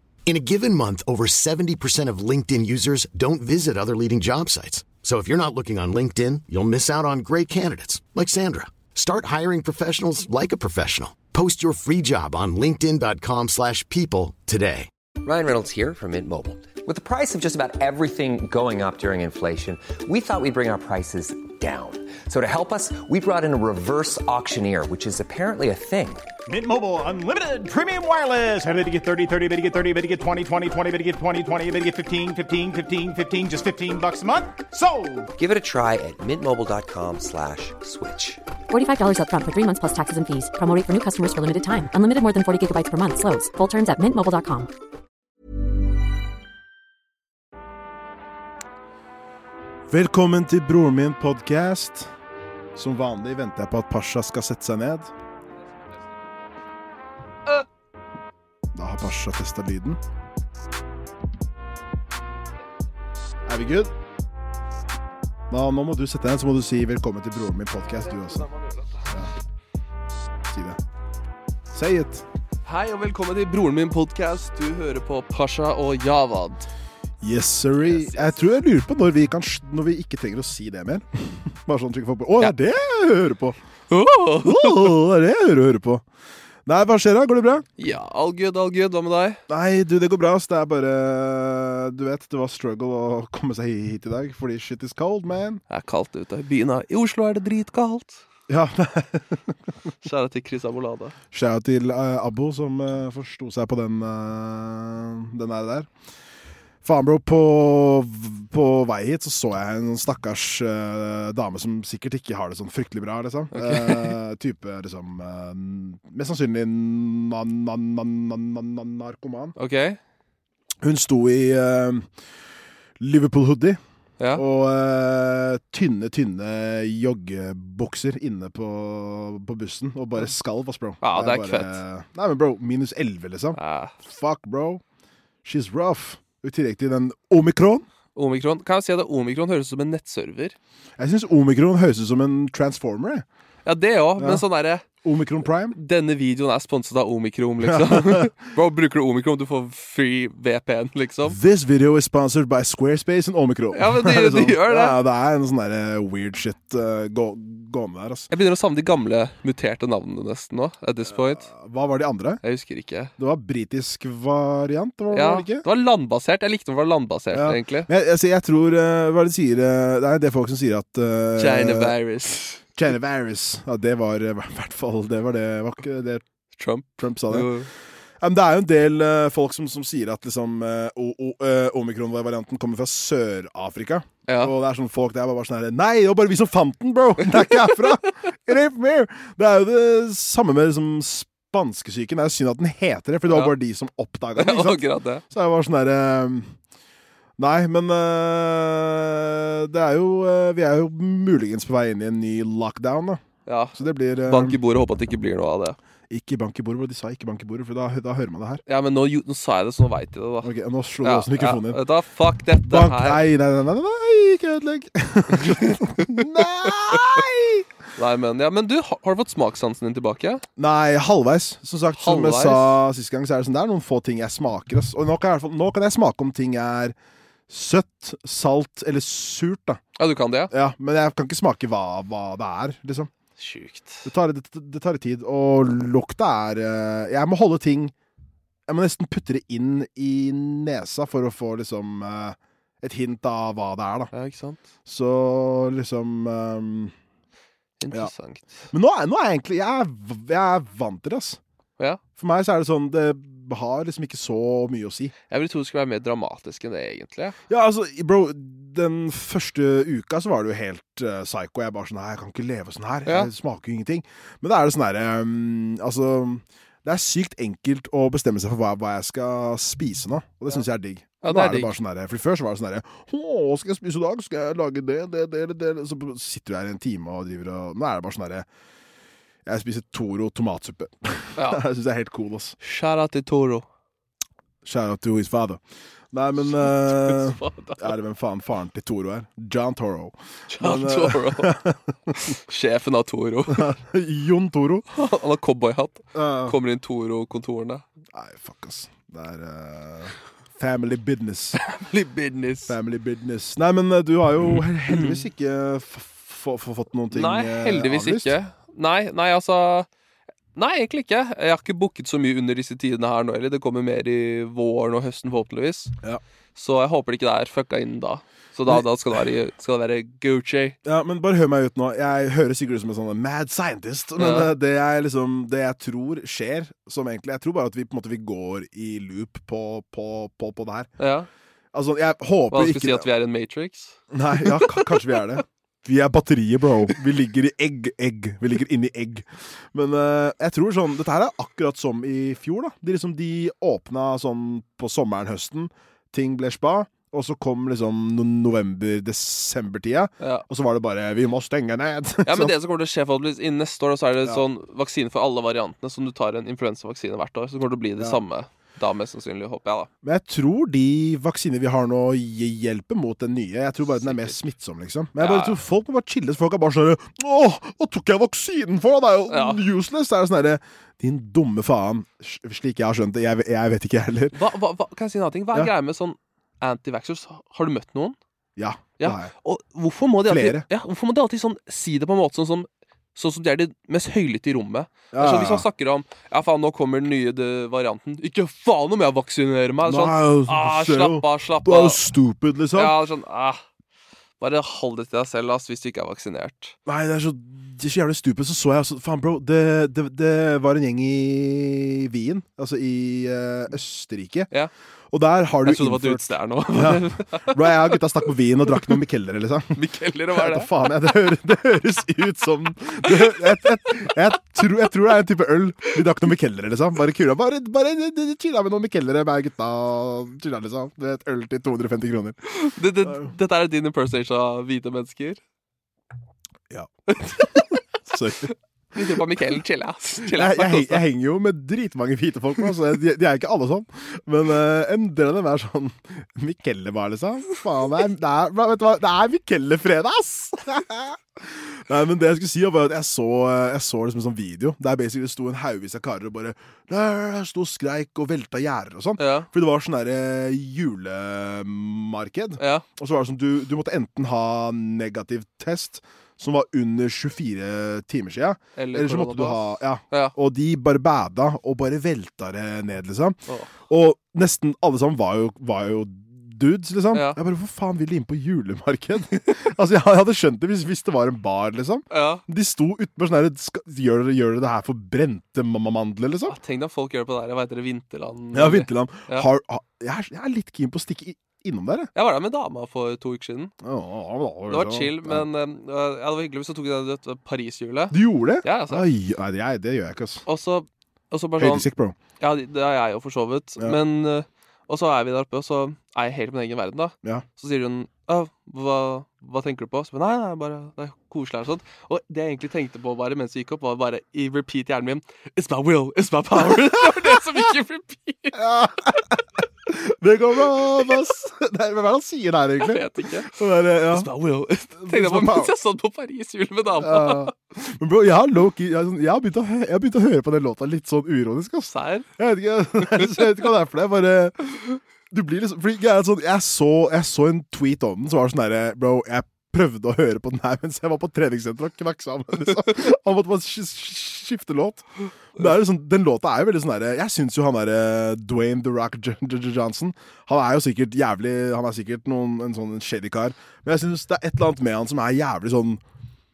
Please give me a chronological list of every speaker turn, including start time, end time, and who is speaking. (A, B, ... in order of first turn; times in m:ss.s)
0:00.3-0:14.9 A
0:15.2-0:26.2 B
0:26.4-0:35.3 C
0:35.4-0:38.4 B
0:38.7-0:44.7 D
0:49.9-0:52.1 E
0:52.7-0:55.1 E
0:58.7-1:00.0 E
1:03.4-1:03.9 E
1:05.5-1:08.5 E
1:08.2-1:09.0 F
1:10.4-1:10.8 E
1:11.7-1:12.2 E
1:12.6-1:16.7 F
1:17.2-1:23.6 E
1:17.8-1:18.4 F
1:23.9-1:25.0 F
1:24.4-1:26.0 E
1:26.6-1:27.6 E
1:27.8-1:29.4 F
1:29.5-1:35.6 E
1:35.7-1:38.2 F
1:38.5-1:39.6 E
1:40.0-1:41.2 F
1:41.3-1:45.9 E
1:46.8-1:59.6 E
1:53.5-1:54.2 F
1:59.6-2:00.0 F
2:00.8-2:02.1 E
2:03.0-2:03.8 E
2:04.3-2:14.8 E
2:11.0-2:11.8 F
2:13.6-2:13.9 F
2:15.4-2:17.8 E
2:18.1-2:20.6 F
2:21.0-2:23.2 E
2:23.6-2:24.8 F
2:24.2-2:24.4 E
2:25.0-2:25.8 E
2:25.7-2:31.4 F
2:27.6-2:28.4 E
2:31.2-2:38.3 E
2:33.7-2:35.0 F
2:38.3-2:41.5 F
2:41.1-2:42.4 E
2:42.4-2:43.1 F
2:43.2-2:45.6 E
2:45.1-2:47.9 F
2:47.3-2:52.0 E
2:51.4-2:52.6 F
2:52.7-2:56.2 E
2:56.5-2:57.7 F
2:57.0-2:57.6 E
2:58.2-3:16.6 E
3:04.3-3:04.5 F
3:07.3-3:07.8 F
3:13.3-3:13.5 F
3:14.4-3:15.2 F
3:17.4-3:23.2 E
3:23.4-3:25.8 F
3:23.7-3:24.6 E
3:26.1-3:28.6 E
3:28.7-3:33.2 F
3:30.4-3:31.8 E
3:32.6-3:37.7 E
3:35.3-3:37.2 F
3:38.0-3:40.4 F
3:40.6-3:46.9 E
3:42.0-3:42.8 F
3:47.5-3:49.8 E
3:50.0-3:50.5 F
3:50.5-3:53.1 E
3:53.4-3:54.1 F
3:54.0-3:57.9 E
3:58.7-4:04.1 E
4:04.1-4:04.6 F
4:04.9-4:06.9 E
4:07.8-4:08.7 F
4:08.7-4:11.4 E
4:12.2-4:15.1 E
4:15.3-4:17.4 F
4:17.5-4:38.5 E
4:31.2-4:31.7 F
4:39.4-4:42.6 E
4:41.4-4:41.6 F
4:42.6-4:43.6 F
4:44.6-4:45.6 E
4:46.1-4:52.4 E
4:46.4-4:48.0 F
4:50.5-4:51.6 F
4:52.3-4:53.7 F
4:53.5-4:54.9 E
4:54.9-4:57.8 F
4:56.1-4:56.6 E
4:58.1-5:01.6 E
5:01.6-5:02.8 F
5:02.7-5:08.3 E
5:04.9-5:05.2 F
5:07.1-5:09.9 F
5:10.5-5:15.9 F
5:16.5-5:20.8 F
5:20.8-5:30.9 E
5:24.2-5:24.5 F
5:31.0-5:31.3 F
5:31.7-5:33.1 E
5:32.5-5:35.3 F
5:34.1-5:52.5 E
5:52.2-5:59.9 F
6:00.0-6:14.4 E
6:03.9-6:04.4 F
6:05.2-6:05.6 F
6:09.3-6:09.6 F
6:14.3-6:18.2 F
6:18.6-6:19.3 E
6:19.0-6:32.0 F
6:20.3-6:20.6 E
6:25.1-6:25.6 E
6:29.8-6:33.0 E
6:32.7-6:33.6 F
6:34.4-6:36.8 F
6:36.8-6:44.5 E
6:45.1-7:02.4 E
6:45.6-6:47.9 F
6:49.7-6:50.7 F
6:53.0-6:53.4 F
7:02.5-7:05.4 F
7:03.0-7:03.3 E
7:06.7-7:08.5 E
7:07.1-7:07.6 F
7:08.9-7:11.0 F
7:10.2-7:56.6 E
7:29.2-7:29.5 F
7:32.6-7:32.8 F
7:38.8-7:40.3 F
7:43.5-7:43.7 F
7:52.1-7:52.4 F
7:56.5-7:59.5 F
7:58.5-8:02.1 E
8:02.1-8:03.7 F
8:03.8-8:05.4 E
8:04.7-8:09.0 F
8:08.1-8:10.4 E
8:10.4-8:11.9 F
8:11.6-8:12.2 E
8:12.4-8:28.7 F
8:28.5-8:34.3 E
8:32.8-8:33.6 F
8:34.1-8:37.5 F
8:35.0-8:35.7 E
8:37.0-8:44.6 E
8:41.9-8:42.3 F
8:43.0-8:43.6 F
8:45.3-9:06.0 E